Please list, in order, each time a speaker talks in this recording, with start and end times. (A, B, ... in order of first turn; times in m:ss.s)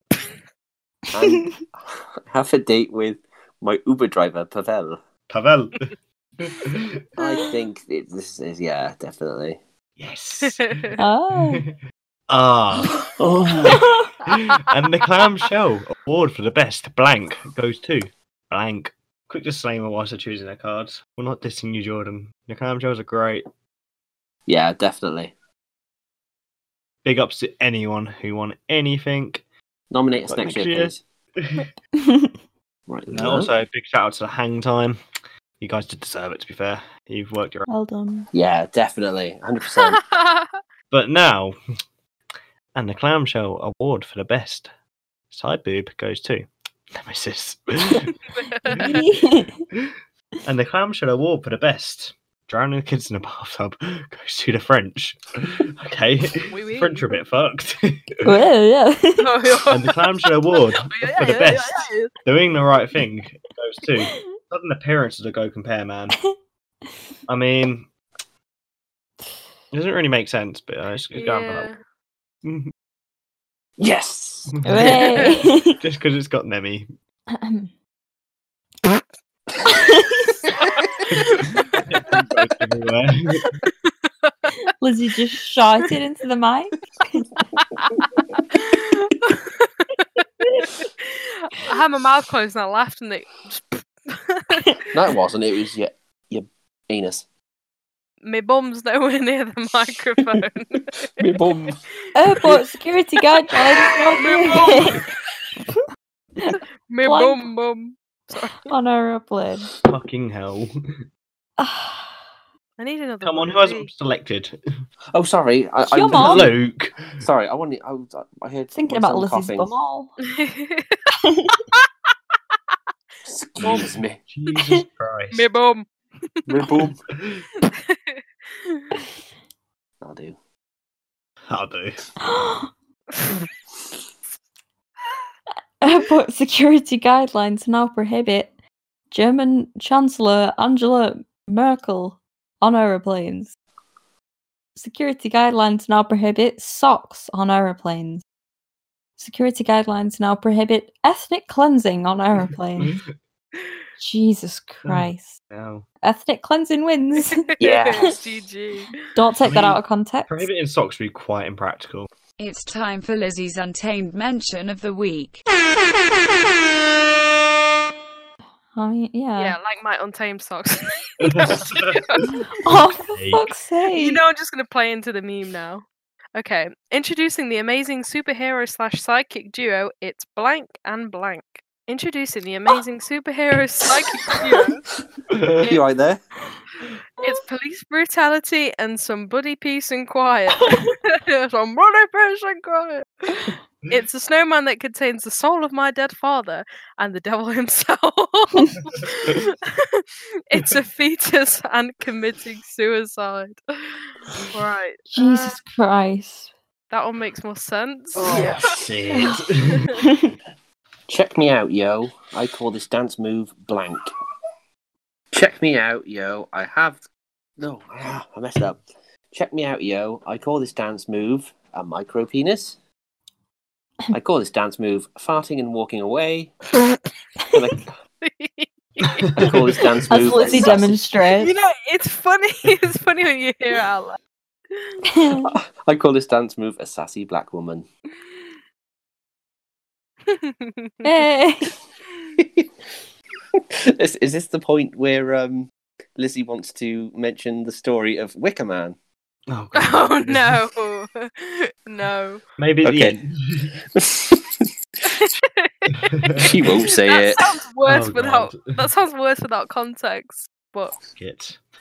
0:01.1-0:05.0 A
0:01.2-0:01.5 B
0:05.3-0:07.0 C
0:07.2-0:09.6 A
0:10.0-0:11.0 C
0:10.4-0:11.0 D
0:11.0-0:11.6 B
0:11.5-0:11.8 C
0:12.3-0:13.1 C
0:13.1-0:13.8 A
0:13.6-0:23.4 C
0:13.8-0:14.1 B
0:24.5-0:25.3 A
0:27.0-0:29.4 C
0:29.9-0:31.0 A
0:30.3-0:31.7 C
0:32.0-0:32.3 B
0:32.9-0:33.5 A
0:33.1-0:35.0 C
0:35.6-0:37.6 C
0:37.7-0:38.3 B
0:38.3-0:40.0 A
0:39.6-0:40.6 D
0:40.9-0:41.6 C
0:42.7-0:44.7 C
0:45.3-0:48.2 C
0:48.3-0:49.0 D
0:48.7-0:49.1 C
0:48.8-0:49.6 B
0:50.4-0:58.3 C
0:56.4-0:57.1 D
0:58.2-0:59.3 B
0:59.2-1:02.1 D
0:59.7-1:06.2 C
1:07.3-1:07.8 C
1:09.7-1:11.7 C
1:11.1-1:11.8 D
1:12.4-1:12.7 C
1:13.8-1:15.0 A
1:14.5-1:15.2 C
1:14.6-1:15.8 B
1:15.8-1:16.9 C
1:17.3-1:17.7 B
1:19.6-1:20.4 B
1:20.6-1:22.4 D
1:21.1-1:23.5 C
1:23.7-1:24.5 D
1:24.8-1:27.3 B
1:27.4-1:34.9 D
1:34.9-1:37.2 A
1:38.2-1:41.7 D
1:41.2-1:41.8 A
1:42.1-1:45.0 B
1:43.9-1:45.1 D
1:46.4-1:47.5 B
1:46.9-1:48.7 D
1:48.7-1:49.7 B
1:49.8-1:50.7 C
1:51.6-1:52.2 B
1:52.8-1:53.9 D
1:53.2-1:54.6 C
1:55.1-1:56.5 A
1:55.8-1:56.5 B
1:56.1-1:57.3 C
1:57.2-1:59.7 A
1:58.7-2:00.1 B
2:00.3-2:01.0 D
2:01.2-2:01.6 B
2:03.2-2:04.2 A
2:03.6-2:03.9 D
2:04.3-2:05.5 C
2:05.3-2:05.9 D
2:06.4-2:06.9 D
2:06.5-2:07.0 A
2:07.2-2:07.5 C
2:07.7-2:08.8 D
2:10.0-2:10.4 A
2:11.5-2:12.1 C
2:12.2-2:12.7 B
2:15.8-2:18.5 B
2:19.1-2:23.5 B
2:24.8-2:28.2 B
2:29.2-2:32.9 B
2:32.8-2:33.1 C
2:34.0-2:35.4 B
2:34.8-2:35.8 C
2:36.0-2:37.4 B
2:37.2-2:39.0 D
2:37.6-2:38.2 A
2:39.1-2:40.5 B
2:39.4-2:42.1 C
2:42.4-2:45.4 E
2:48.7-2:49.6 B
2:49.4-2:52.4 D
2:51.2-2:52.5 C
2:52.6-2:54.2 B
2:53.1-2:53.5 C
2:53.9-3:04.8 D
3:05.3-3:05.6 C
3:05.5-3:06.2 A
3:07.2-3:25.6 D
3:10.6-3:10.9 B
3:25.1-3:26.5 B
3:26.9-3:28.7 D
3:28.2-3:29.0 A
3:28.7-3:29.9 C
3:29.1-3:29.4 B
3:29.6-3:29.9 D
3:29.9-3:30.3 B
3:31.1-3:34.1 A
3:35.3-3:37.0 A
3:37.6-3:38.8 A
3:39.3-3:42.8 A
3:44.1-3:46.6 A
3:47.5-3:47.9 A
3:48.2-3:50.7 D
3:49.2-3:49.5 C
3:49.4-3:51.0 A
3:50.1-3:51.5 B
3:51.4-3:54.2 D
3:55.0-3:55.5 B
3:55.5-3:57.8 A
3:58.2-3:58.6 D
4:00.3-4:01.3 D
4:01.0-4:01.7 B
4:02.4-4:02.7 A
4:03.6-4:09.0 A
4:09.5-4:10.6 C
4:09.8-4:12.4 D
4:12.6-4:13.7 C
4:12.8-4:13.2 A
4:13.9-4:14.6 A
4:15.0-4:20.9 D
4:15.9-4:16.6 C
4:16.4-4:17.5 A
4:17.8-4:18.7 C
4:21.1-4:21.6 C